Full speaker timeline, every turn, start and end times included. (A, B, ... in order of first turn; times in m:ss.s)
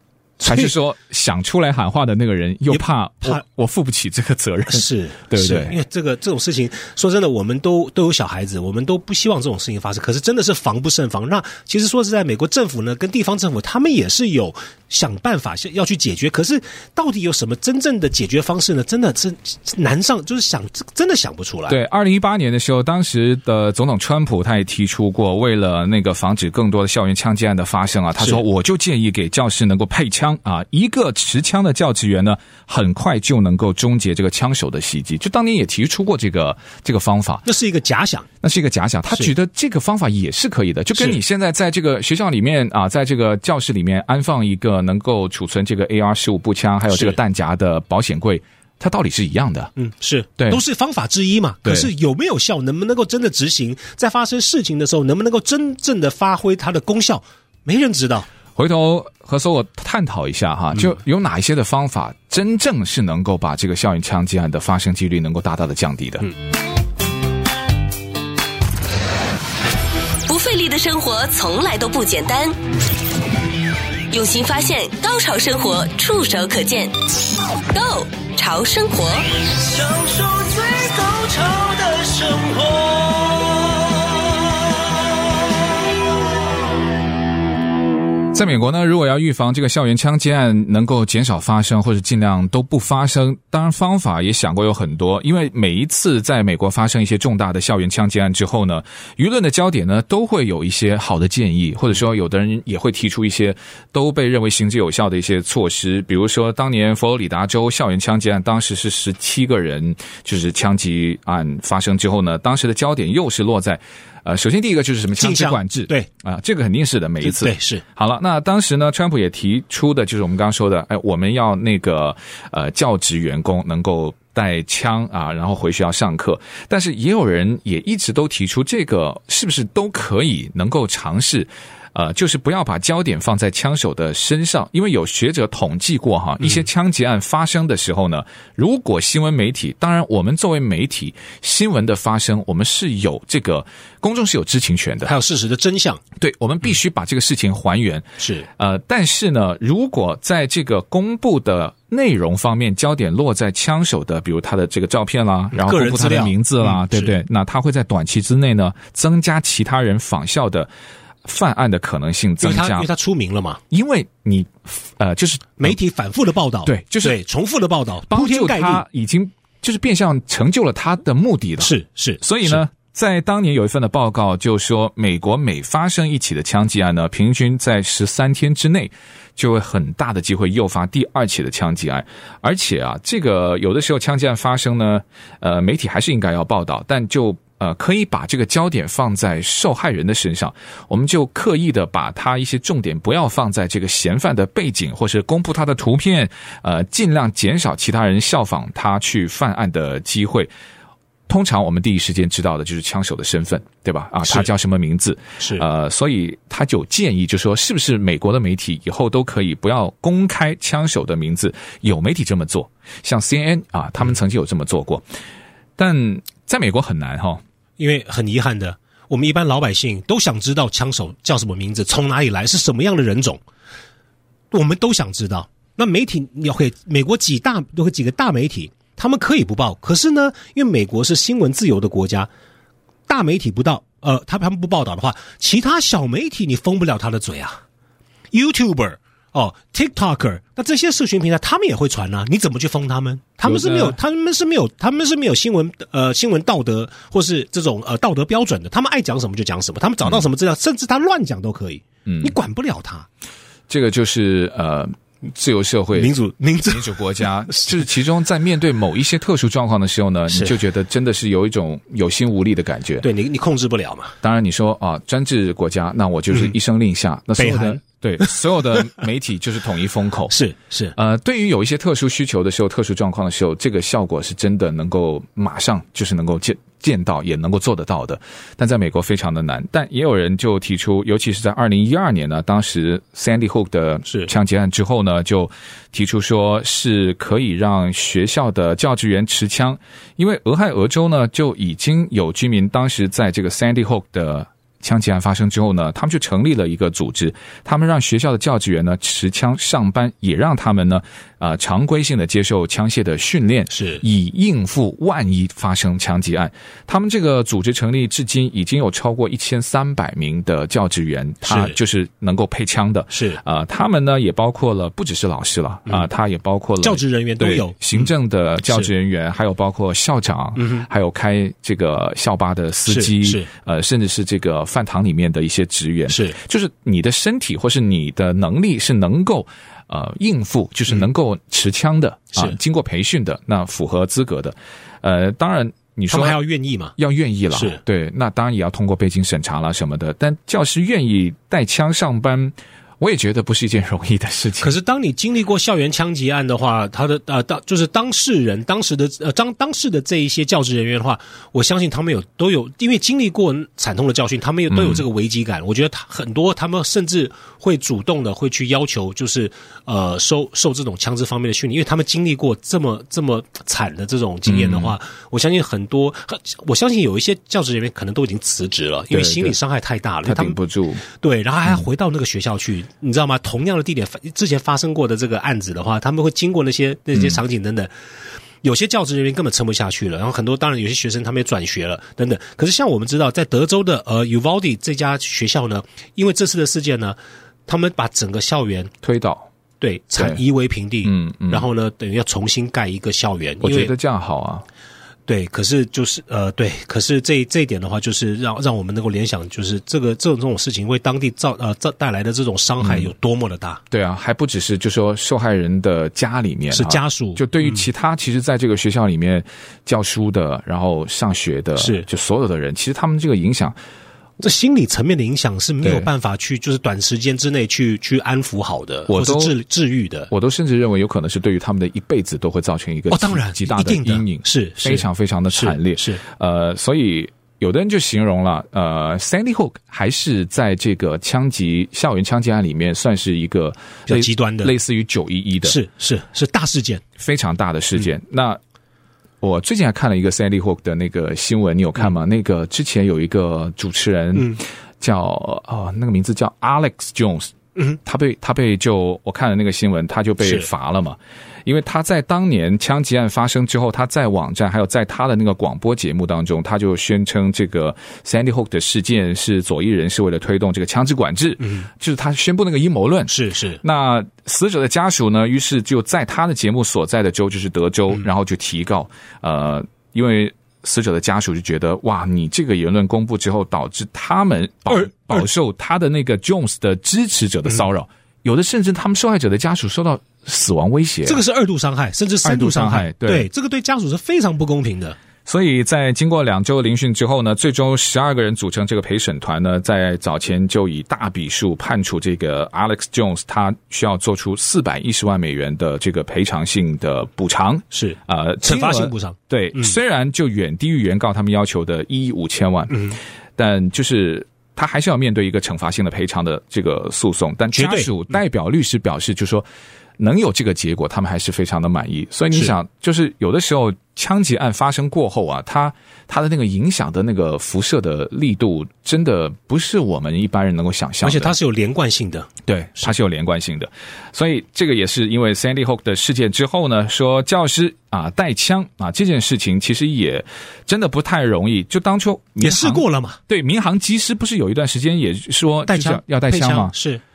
0:00.4-0:05.8 A
0:00.4-0:00.7 B
0:02.7-0:03.4 B
0:04.7-0:21.8 B
0:21.7-0:37.4 A
0:37.4-0:38.3 B
0:38.4-0:49.7 A
0:46.9-0:47.2 B
0:49.8-0:58.3 B
0:51.6-0:51.9 A
0:58.6-1:06.3 A
1:10.2-1:12.6 C
1:14.1-1:16.9 C
1:17.7-1:19.3 C
1:19.4-1:25.2 D
1:28.3-2:25.1 A
1:55.2-1:56.1 B
1:57.2-1:57.8 B
2:25.0-2:26.0 B
2:26.2-2:40.7 A
2:28.2-2:28.5 B
2:35.5-2:37.2 B
2:41.2-2:42.9 A
2:42.4-2:43.6 B
2:43.7-2:45.8 A
2:45.6-2:48.8 B
2:46.6-2:47.2 A
2:48.1-3:20.5 A
2:51.6-2:52.6 B
3:21.3-3:35.0 A
3:25.4-3:25.6 B
3:35.8-3:37.4 A
3:37.8-3:43.4 B
3:44.5-3:52.3 B
3:53.1-3:57.6 B
3:58.3-4:13.1 B
4:03.4-4:04.0 A
4:12.0-4:12.3 A
4:13.7-4:16.1 A
4:15.9-4:16.9 B
4:16.7-4:23.0 A
4:20.3-4:20.6 B
4:23.0-4:24.1 B
4:24.2-4:30.3 A
4:27.4-4:28.3 B
4:30.3-4:30.9 B
4:31.0-5:36.4 A
5:03.7-5:04.0 B
5:11.4-5:11.8 B
5:13.1-5:13.4 B
5:16.8-5:18.1 B
5:20.6-5:20.9 B
5:22.9-5:23.5 B
5:26.1-5:26.4 B
5:36.1-5:37.0 B
5:37.0-5:44.7 A
5:37.5-5:37.8 B
5:44.6-6:17.9 B
5:54.7-5:55.0 A
6:04.4-6:05.0 A
6:09.1-6:09.6 A
6:10.2-6:11.0 A
6:17.1-6:17.4 A
6:18.6-6:28.9 B
6:29.0-6:29.5 A
6:29.8-6:33.9 B
6:31.0-6:31.7 A
6:33.6-6:34.6 A
6:35.3-6:43.8 B
6:42.8-6:43.1 A
6:43.9-6:53.8 A
6:46.7-6:47.8 B
6:51.8-6:52.1 B
6:54.4-7:00.3 B
6:55.8-6:56.1 A
6:59.1-6:59.6 A
7:00.3-7:15.8 A
7:03.1-7:06.2 B
7:14.1-7:14.7 B
7:15.6-7:17.0 B
7:17.2-7:18.6 A
7:19.4-7:27.5 A
7:24.3-7:24.6 B
7:28.0-8:01.4 A
7:41.6-7:41.9 B
7:43.3-7:43.8 B
7:54.9-7:55.4 B
8:01.2-8:05.2 B
8:02.4-8:03.5 A
8:05.4-8:29.6 A
8:17.9-8:20.0 B
8:22.9-8:23.2 B
8:27.7-8:28.1 B
8:30.2-8:41.5 A
8:41.2-8:42.5 B
8:42.6-8:56.9 A
8:52.6-8:53.4 B
8:55.9-8:57.2 B